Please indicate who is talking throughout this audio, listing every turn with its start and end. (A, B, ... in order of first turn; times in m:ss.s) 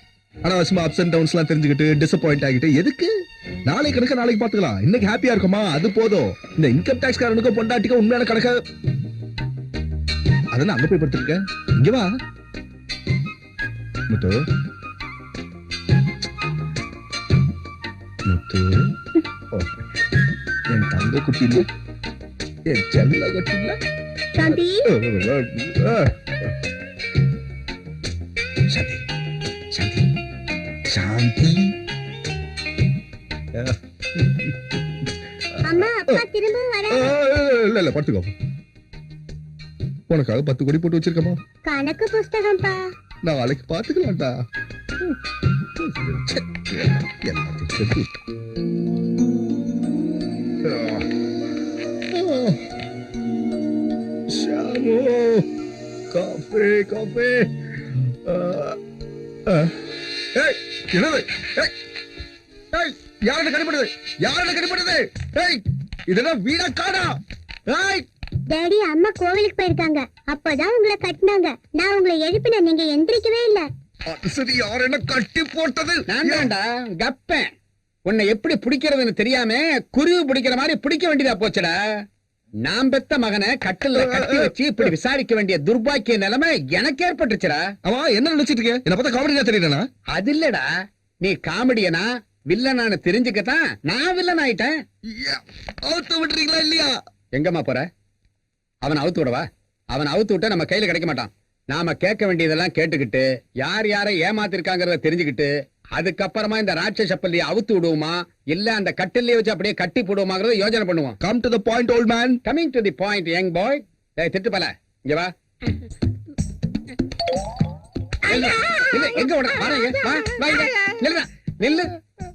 0:00.4-0:03.1 A
0:03.7-0:08.6 A
0:10.5-0:12.1 A
0:14.1-0:14.4 A
0:18.3-0:19.0 A
0:20.7-0:21.7 A
0:22.7-0:23.8 A
0:24.4-0:24.9 B
0:24.5-0:26.1 A
0:28.7-0:29.0 A
0:29.7-0:30.1 A
0:30.9-0:31.7 A
0:33.5-0:34.5 A
0:35.6-0:36.2 A
0:35.6-0:37.2 B
0:36.9-0:38.3 A
0:40.1-0:41.4 A
0:41.7-0:42.9 B
0:43.2-0:44.3 A
0:45.6-0:48.2 A
0:50.6-0:51.0 A
0:51.9-0:52.6 A
0:54.3-0:55.4 A
0:56.1-0:58.8 A
0:59.5-0:59.7 A
1:00.4-1:01.7 A
1:02.7-1:08.0 A
1:08.5-1:13.7 B
1:14.1-1:16.5 A
1:16.1-1:17.5 C
1:18.1-1:21.7 C
1:22.6-1:27.6 C
1:24.0-1:24.9 A
1:27.8-1:29.8 A
1:30.1-1:30.6 C
1:31.2-1:34.7 C
1:35.1-1:36.9 A
1:37.3-1:37.9 C
1:38.8-1:51.2 C
1:51.2-1:52.4 A
1:52.5-1:55.3 C
1:58.3-1:58.9 B
1:58.3-2:01.9 C
1:59.6-2:00.2 B